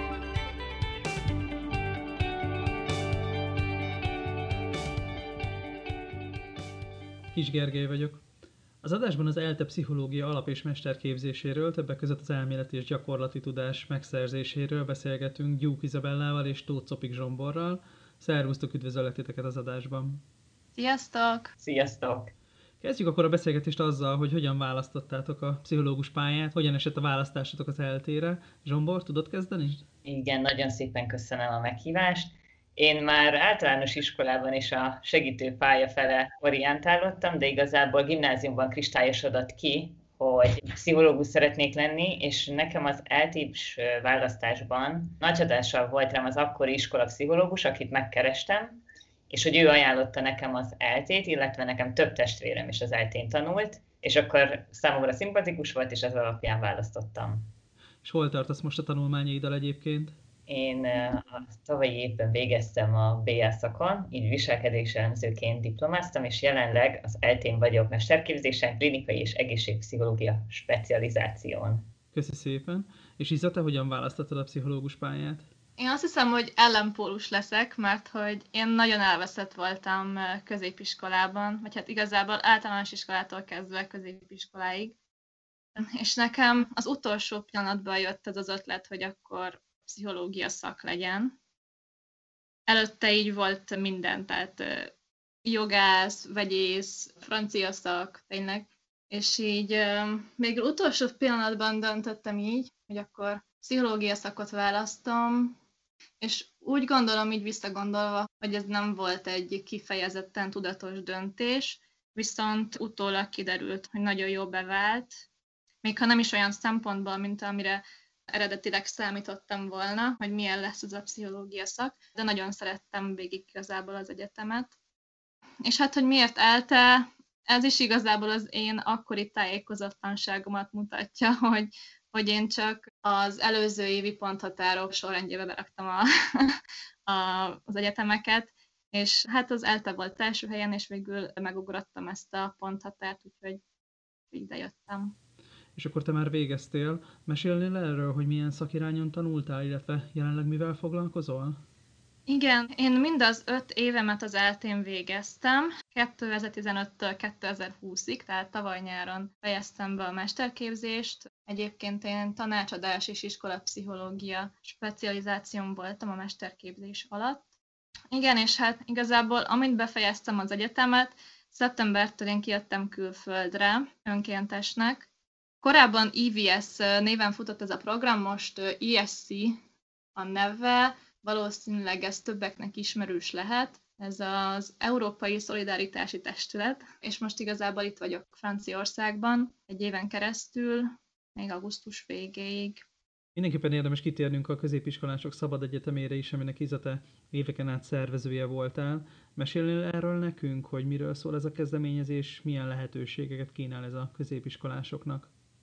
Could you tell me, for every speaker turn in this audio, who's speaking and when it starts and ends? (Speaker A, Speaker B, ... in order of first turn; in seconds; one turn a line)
Speaker A: 7.3-8.2
Speaker A: 8.8-20.2
Speaker B: 20.8-21.5
Speaker C: 21.6-22.3
Speaker A: 22.8-29.9
Speaker C: 30.1-57.5
Speaker A: 58.0-60.1
Speaker C: 60.5-71.9
Speaker A: 72.1-75.5
Speaker B: 75.8-85.0
Speaker B: 85.8-91.3
Speaker B: 92.7-94.9
Speaker B: 95.5-105.6
Speaker B: 106.2-115.2
Speaker B: 115.8-117.8
Speaker B: 118.3-124.7
Speaker B: 125.7-143.6
Speaker B: 144.3-145.1
Speaker A: 145.8-151.6
Speaker B: 152.3-167.5
Speaker B: 168.1-175.1
Speaker B: 175.6-179.6
Speaker B: 180.2-192.8
Speaker A: 193.3-205.3